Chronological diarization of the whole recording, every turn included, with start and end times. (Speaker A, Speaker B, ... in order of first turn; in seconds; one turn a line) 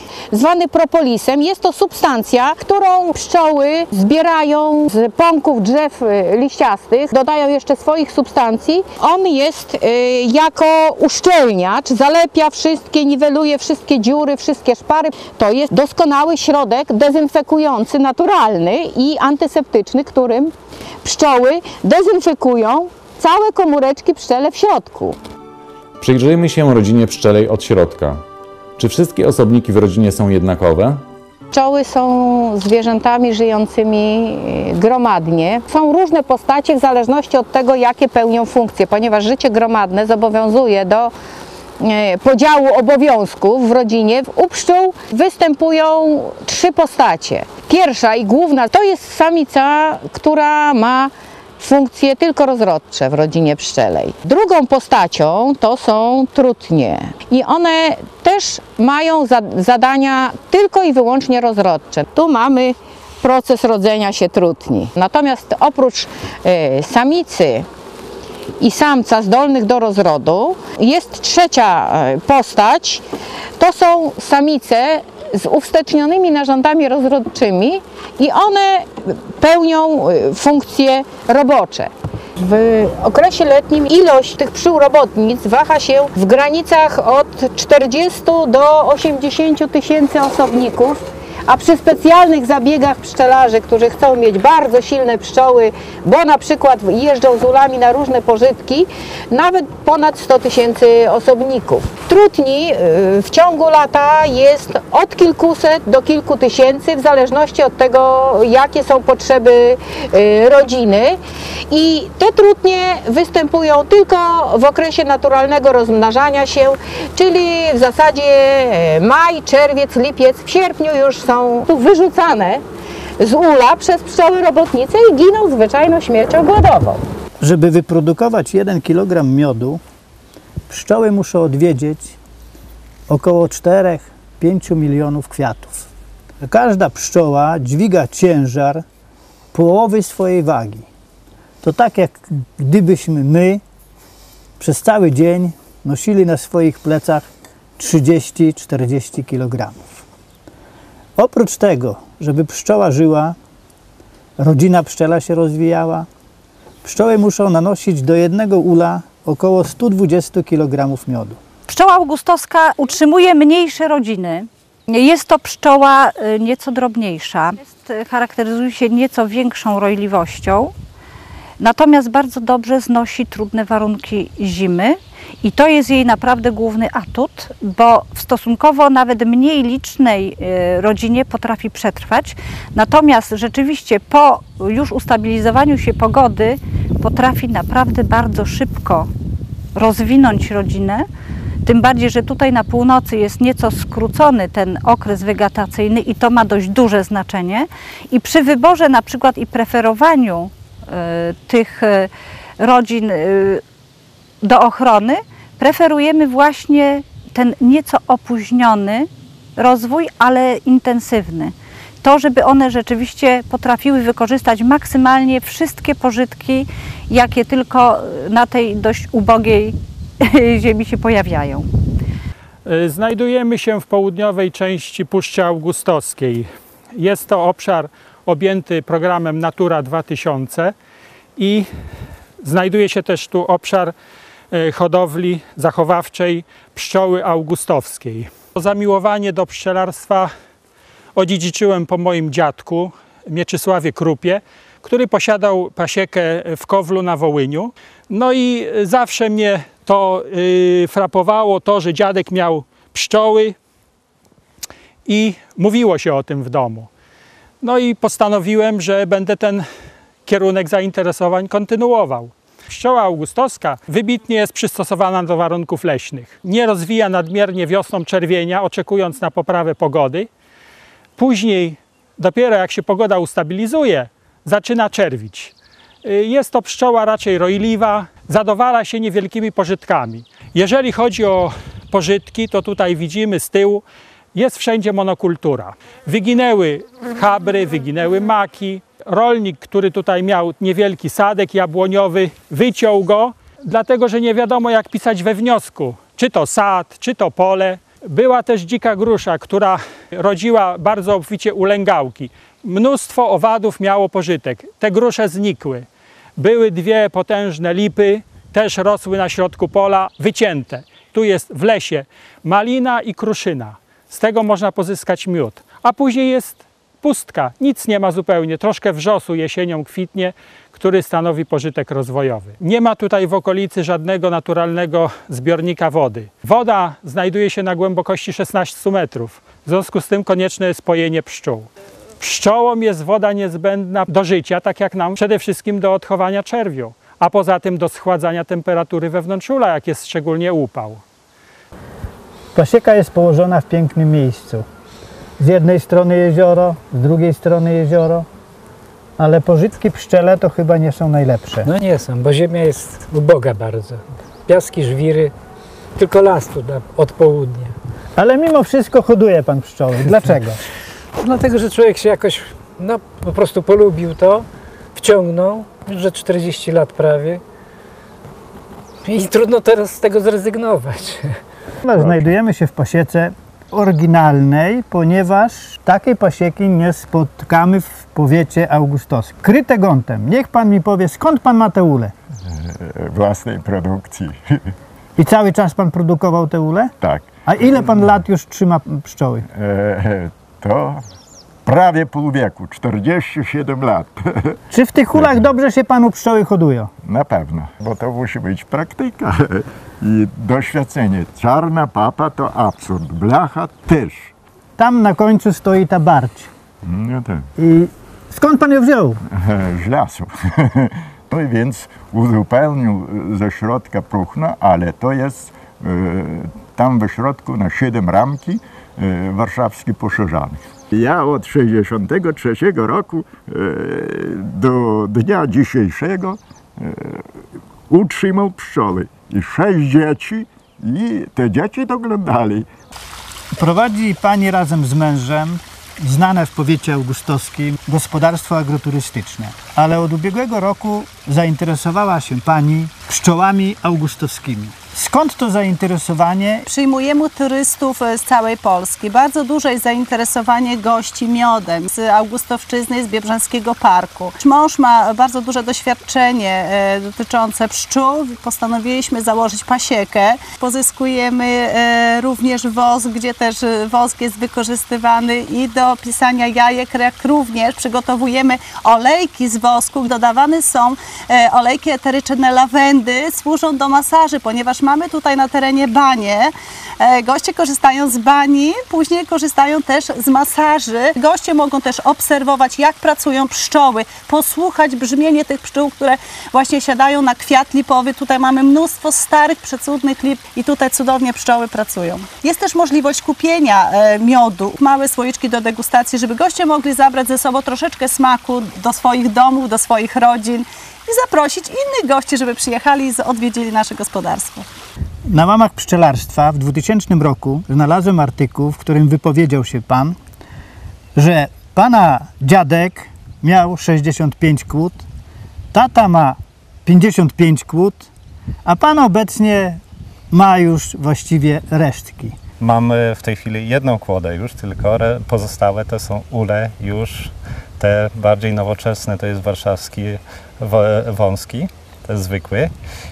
Speaker A: 0.3-25.2
Speaker B: 26.0-28.2
Speaker B: 28.8-31.0
Speaker A: 31.5-41.1
Speaker A: 41.8-67.7
Speaker A: 68.6-73.0
Speaker A: 73.6-111.2
Speaker A: 111.7-122.6
Speaker A: 123.2-127.0
Speaker C: 127.4-129.8
Speaker C: 130.7-132.2
Speaker C: 133.1-135.9
Speaker C: 136.4-138.8
Speaker C: 139.5-140.9
Speaker C: 141.6-143.6
Speaker C: 144.6-147.3
Speaker C: 147.8-149.8
Speaker C: 151.2-153.3
Speaker C: 154.4-156.1
Speaker C: 156.8-161.4
Speaker D: 161.7-170.7
Speaker D: 171.6-189.1
Speaker D: 189.8-191.1
Speaker D: 191.7-203.6
Speaker D: 204.4-221.7
Speaker E: 222.7-230.7
Speaker E: 231.4-231.7
Speaker E: 232.4-233.9
Speaker E: 234.5-240.3
Speaker E: 241.2-253.6
Speaker E: 255.1-256.9
Speaker E: 257.6-259.6
Speaker E: 260.3-270.3
Speaker E: 271.2-275.5
Speaker E: 276.0-283.8
Speaker E: 284.3-331.7
Speaker E: 332.2-341.0
Speaker C: 342.6-344.6
Speaker C: 345.4-348.3
Speaker C: 349.2-351.7
Speaker F: 351.6-355.3
Speaker F: 356.0-357.8
Speaker C: 358.2-360.6
Speaker F: 360.1-360.4
Speaker F: 361.2-367.4
Speaker F: 369.0-371.4
Speaker C: 371.8-382.1
Speaker G: 382.6-384.6
Speaker C: 385.2-386.9
Speaker G: 387.0-387.3
Speaker C: 387.5-389.4
Speaker G: 389.5-391.0
Speaker G: 391.7-394.6
Speaker C: 394.7-396.9
Speaker G: 397.1-404.3
Speaker C: 404.8-406.5
Speaker G: 406.9-407.4
Speaker C: 407.6-409.2
Speaker G: 409.4-427.2
Speaker G: 427.9-432.7
Speaker C: 433.5-446.7
Speaker H: 446.7-504.7
Speaker C: 505.3-510.2
Speaker C: 511.1-515.1
Speaker C: 515.7-518.1
Speaker C: 518.6-522.4
Speaker I: 522.6-532.7